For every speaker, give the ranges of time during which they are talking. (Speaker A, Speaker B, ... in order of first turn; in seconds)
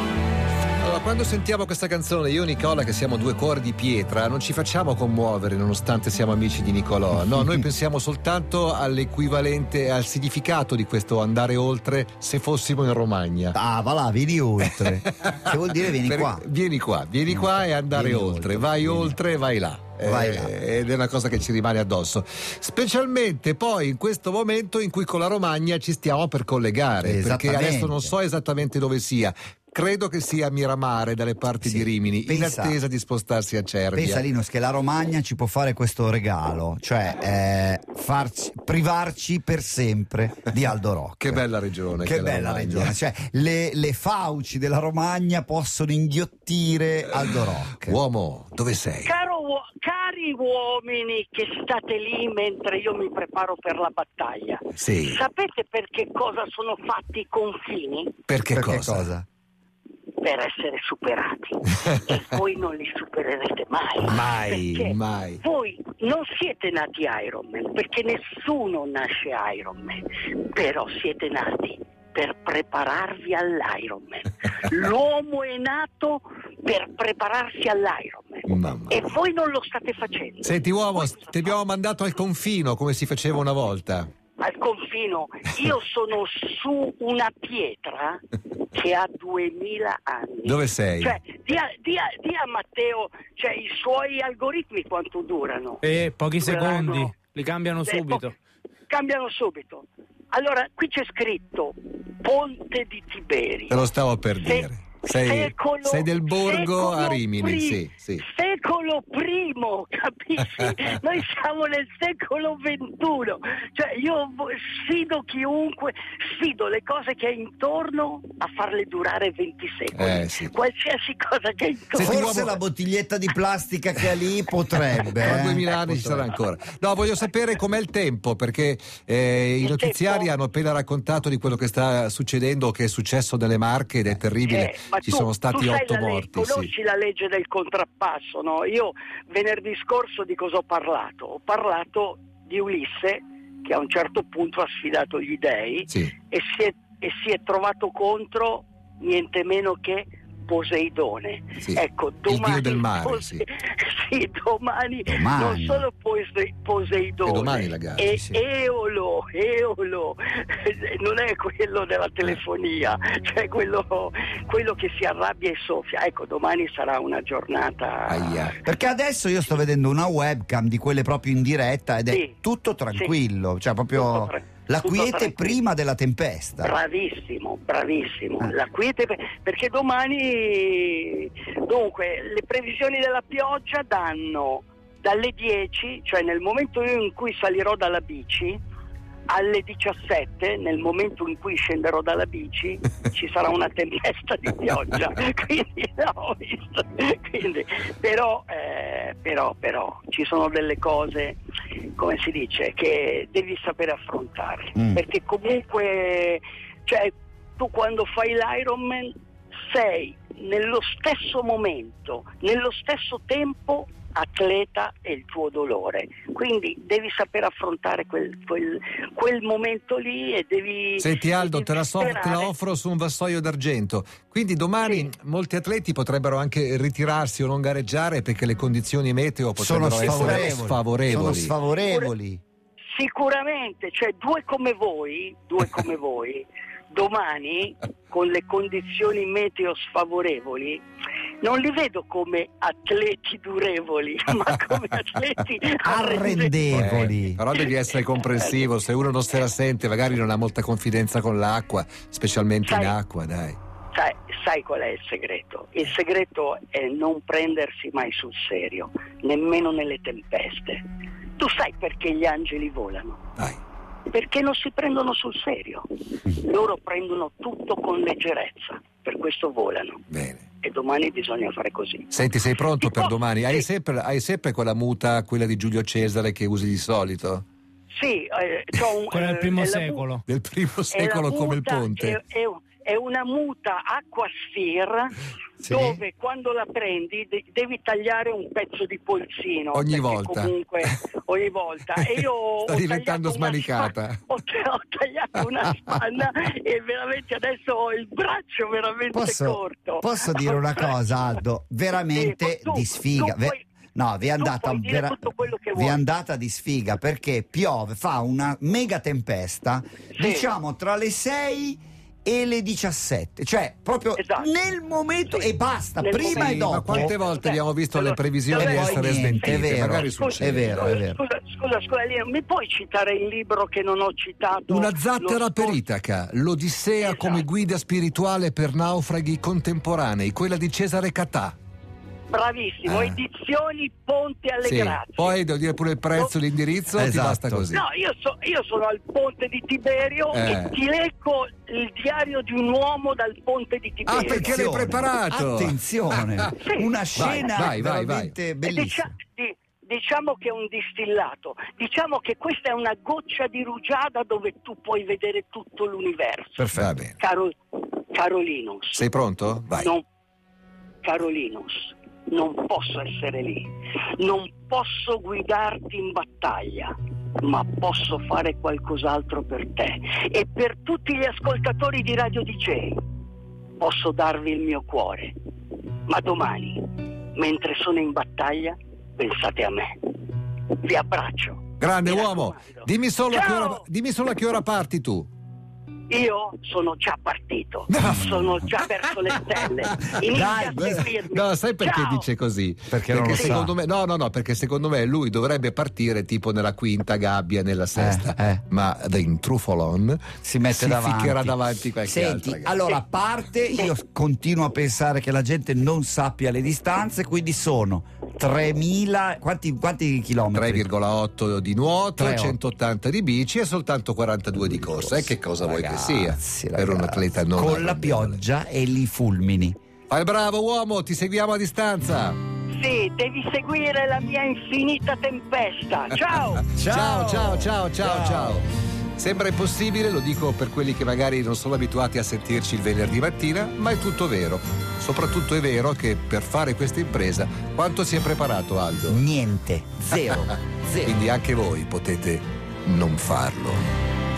Speaker A: 0.8-13.6, 14.7-34.2, 41.2-43.0, 47.8-49.1, 54.8-55.2, 58.3-59.1, 64.8-65.4, 78.5-79.0, 80.4-84.1, 90.4-91.1, 103.7-108.2, 119.9-120.5, 121.9-122.6, 125.2-136.7, 151.6-153.4, 157.2-158.1, 168.1-168.6, 221.0-231.5, 246.7-253.6, 270.1-270.4, 272.1-277.4, 280.2-282.2, 289.7-290.9, 292.0-294.2, 295.4-296.0, 316.3-321.0, 324.7-331.5, 332.8-333.2, 334.6-337.8, 340.3-340.8, 344.1-346.5, 347.1-348.3, 356.7-357.2, 358.9-359.9, 381.8-385.3, 387.9-390.2, 390.8-402.9, 410.5-418.4, 420.1-422.4, 426.7-439.2, 440.3-440.5, 441.0-443.9
Speaker B: 7.2-7.7, 13.5-16.4, 17.3-19.2, 20.0-20.5, 27.0-28.1, 31.6-32.8, 33.9-41.5, 42.0-48.0, 58.5-59.2, 64.0-64.8, 122.0-126.3, 155.1-155.8, 158.1-158.4, 168.6-176.8, 204.8-205.0, 229.6-232.4, 245.8-247.4, 285.6-286.0, 299.1-317.2, 318.5-321.2, 336.9-337.7, 344.1-349.1, 356.6-356.9, 388.0-388.5, 390.2-391.1, 392.9-393.7, 397.9-398.6, 400.4-410.9, 412.2-412.6, 414.6-419.8, 426.7-428.6, 439.1-441.2
Speaker C: 49.0-58.2, 60.2-81.6, 84.4-97.2, 97.8-98.3, 98.9-103.8, 104.4-122.4, 129.6-130.3, 134.4-168.6, 172.1-172.3, 173.9-175.6, 176.6-188.6, 189.3-201.4, 201.9-222.5, 230.1-230.6, 231.8-232.1, 232.9-240.8, 241.4-246.8, 247.5-248.7, 252.6-252.9, 253.9-260.8, 261.4-263.2, 264.1-270.0, 270.6-272.1, 272.8-273.6, 277.9-280.1, 280.9-301.4, 302.0-303.6, 304.4-306.0, 310.1-310.5, 314.2-314.5, 315.3-325.8, 327.0-327.4, 332.3-335.4, 337.7-344.6, 346.6-346.9, 348.6-359.1, 359.6-360.0, 361.0-373.0, 373.8-375.3, 376.1-380.1, 380.8-383.8, 386.1-392.3, 393.3-393.6, 422.7-426.6
Speaker D: 95.8-98.3, 279.1-280.2